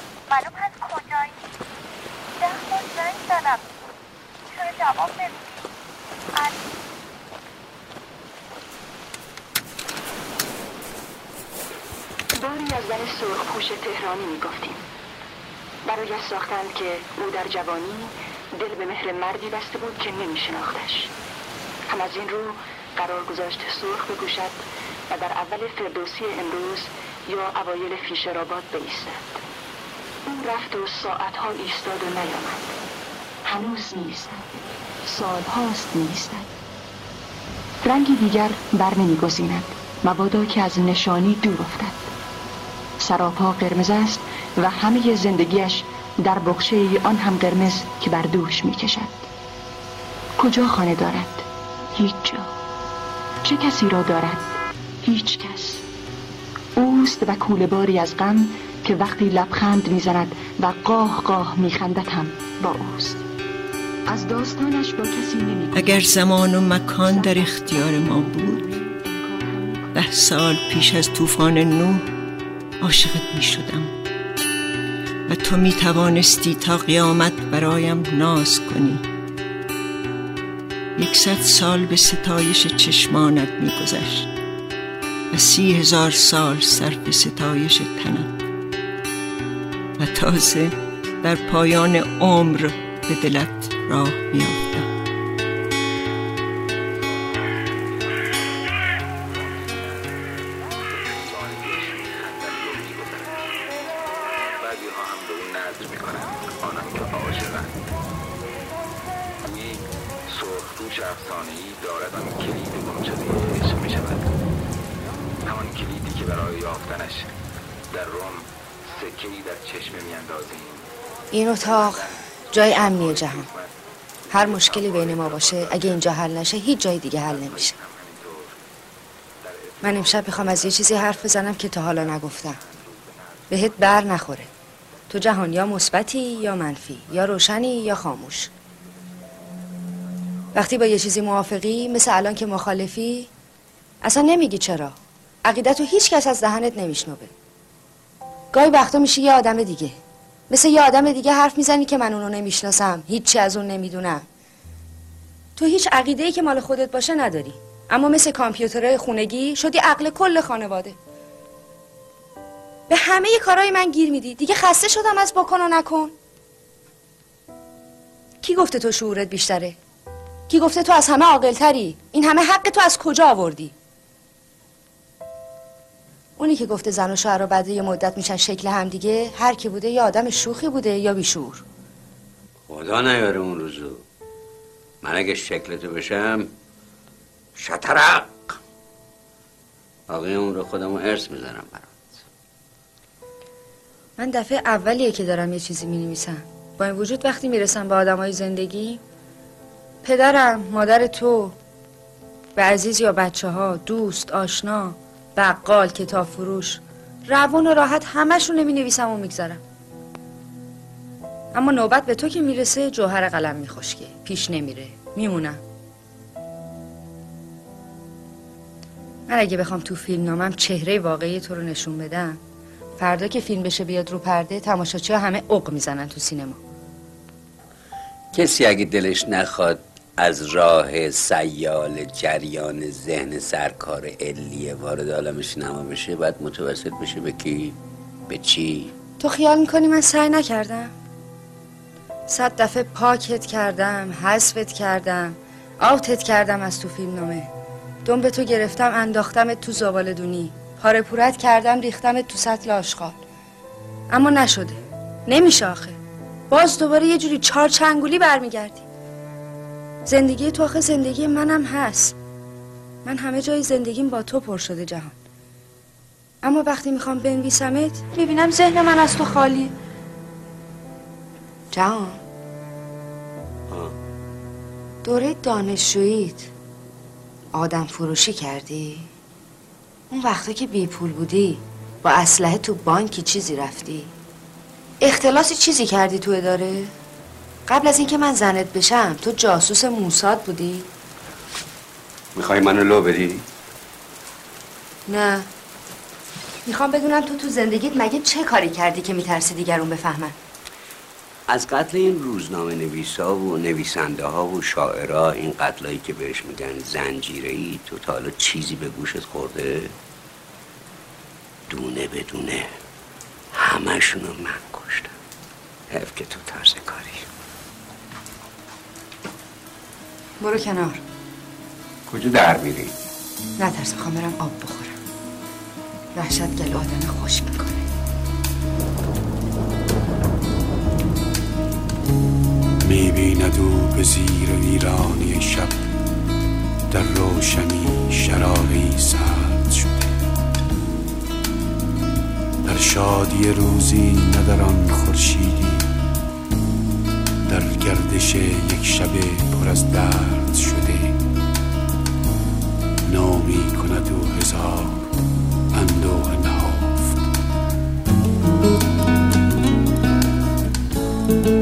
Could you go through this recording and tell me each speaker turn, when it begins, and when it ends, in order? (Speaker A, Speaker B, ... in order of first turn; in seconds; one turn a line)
Speaker A: 0.4-1.2
Speaker A: 2.4-3.5
Speaker A: 4.6-5.3
Speaker A: 12.3-14.8
Speaker A: 15.8-21.1
Speaker A: 21.9-29.4
Speaker A: 30.2-32.8
Speaker A: 33.5-36.5
Speaker A: 37.8-42.1
Speaker A: 43.0-49.3
Speaker A: 50.4-52.5
Speaker A: 53.4-55.8
Speaker A: 56.8-63.3
Speaker A: 64.1-67.6
Speaker B: 65.7-68.7
Speaker A: 69.3-70.1
Speaker B: 70.0-72.1
Speaker B: 72.8-73.9
Speaker B: 75.3-79.0
Speaker B: 81.0-84.3
Speaker B: 85.3-88.3
Speaker B: 90.0-94.9
Speaker C: 98.0-98.3
Speaker C: 99.2-100.1
Speaker C: 100.9-103.5
Speaker C: 104.6-107.8
Speaker C: 109.4-114.2
Speaker C: 115.5-117.3
Speaker C: 117.9-120.9
Speaker D: 121.3-123.5
Speaker C: 122.6-123.6
Speaker C: 124.3-126.0
Speaker D: 124.3-127.8
Speaker C: 127.3-128.5
Speaker C: 129.7-130.9
Speaker D: 129.8-132.6
Speaker D: 133.5-134.5
Speaker D: 135.1-138.5
Speaker D: 140.5-143.3
Speaker D: 144.0-147.3
Speaker D: 148.5-150.0
Speaker D: 150.5-154.2
Speaker D: 155.6-161.0
Speaker D: 162.9-166.1
Speaker D: 168.4-169.8
Speaker D: 170.5-173.7
Speaker D: 176.4-181.6
Speaker E: 182.7-184.1
Speaker E: 185.0-186.5
Speaker E: 187.6-188.6
Speaker E: 190.1-192.2
Speaker D: 194.2-199.0
Speaker D: 200.0-201.6
Speaker D: 202.6-209.6
Speaker D: 211.5-215.6
Speaker D: 219.3-222.4
Speaker D: 223.0-226.6
Speaker E: 228.3-238.9
Speaker D: 239.2-240.9
Speaker D: 242.3-247.5
Speaker D: 248.1-253.2
Speaker D: 254.1-256.0
Speaker D: 256.5-258.8
Speaker D: 260.1-262.1
Speaker D: 263.1-265.2
Speaker D: 266.4-269.7
Speaker D: 271.7-272.2
Speaker E: 273.7-273.9
Speaker D: 275.0-276.5
Speaker D: 277.5-279.1
Speaker D: 280.1-284.1
Speaker D: 285.0-286.9
Speaker D: 287.7-290.9
Speaker E: 292.4-293.4
Speaker D: 295.1-295.5
Speaker D: 296.6-300.4
Speaker E: 301.5-309.9
Speaker E: 311.7-312.7
Speaker E: 313.6-315.1
Speaker E: 315.9-317.2
Speaker D: 320.4-321.0
Speaker E: 322.1-322.9
Speaker D: 323.6-325.0
Speaker D: 326.1-327.9
Speaker F: 332.8-335.8
Speaker F: 336.9-340.1
Speaker F: 342.6-345.9
Speaker F: 347.5-351.2
Speaker F: 353.1-355.1
Speaker F: 355.7-357.2